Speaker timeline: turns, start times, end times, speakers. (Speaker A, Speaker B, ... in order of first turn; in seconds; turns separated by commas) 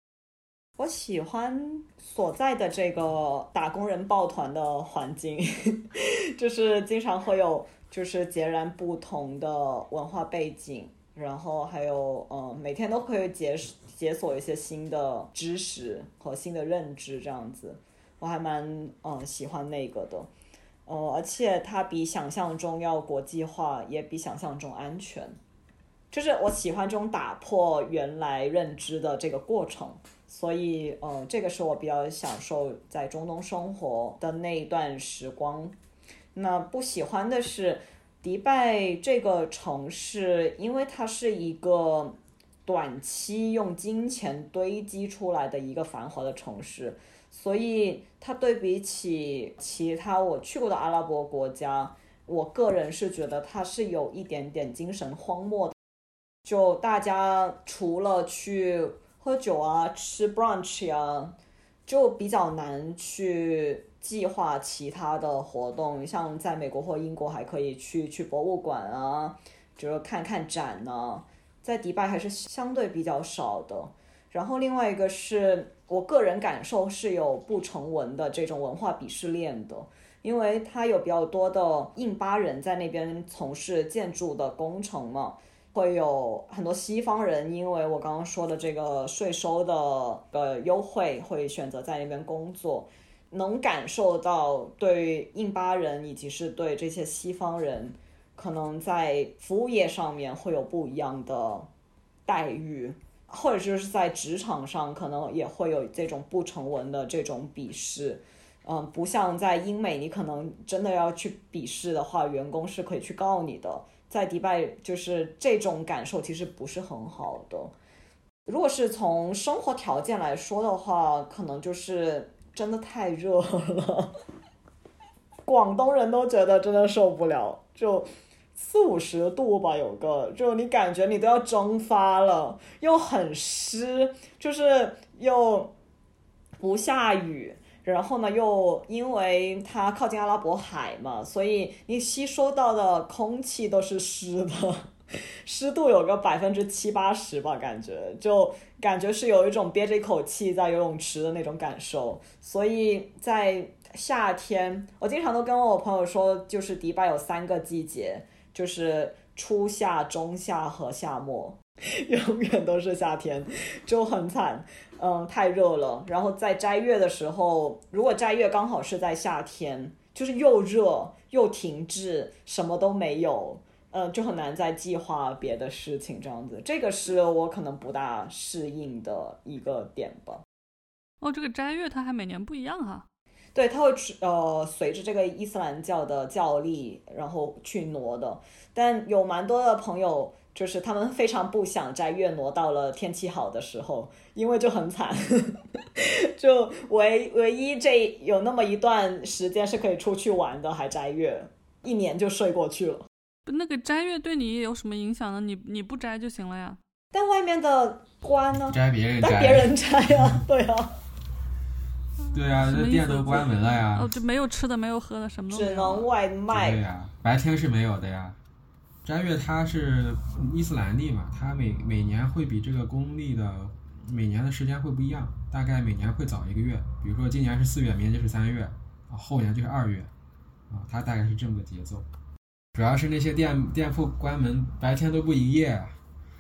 Speaker A: 0.8-20.3, Speaker A: 20.9-25.4, Speaker A: 26.1-35.8, Speaker A: 36.4-55.7, Speaker A: 56.5-101.7, Speaker A: 102.3-117.7, Speaker A: 118.5-124.2, Speaker A: 125.5-135.7, Speaker A: 136.6-144.9, Speaker A: 145.4-180.4, Speaker B: 181.2-183.1, Speaker A: 183.6-203.1, Speaker B: 203.5-206.8, Speaker A: 207.1-211.0, Speaker C: 208.5-209.8, Speaker B: 212.2-216.1, Speaker C: 212.3-214.1, Speaker A: 215.5-216.8, Speaker C: 216.5-218.4, Speaker C: 219.1-230.1, Speaker C: 230.7-232.1, Speaker C: 232.7-236.0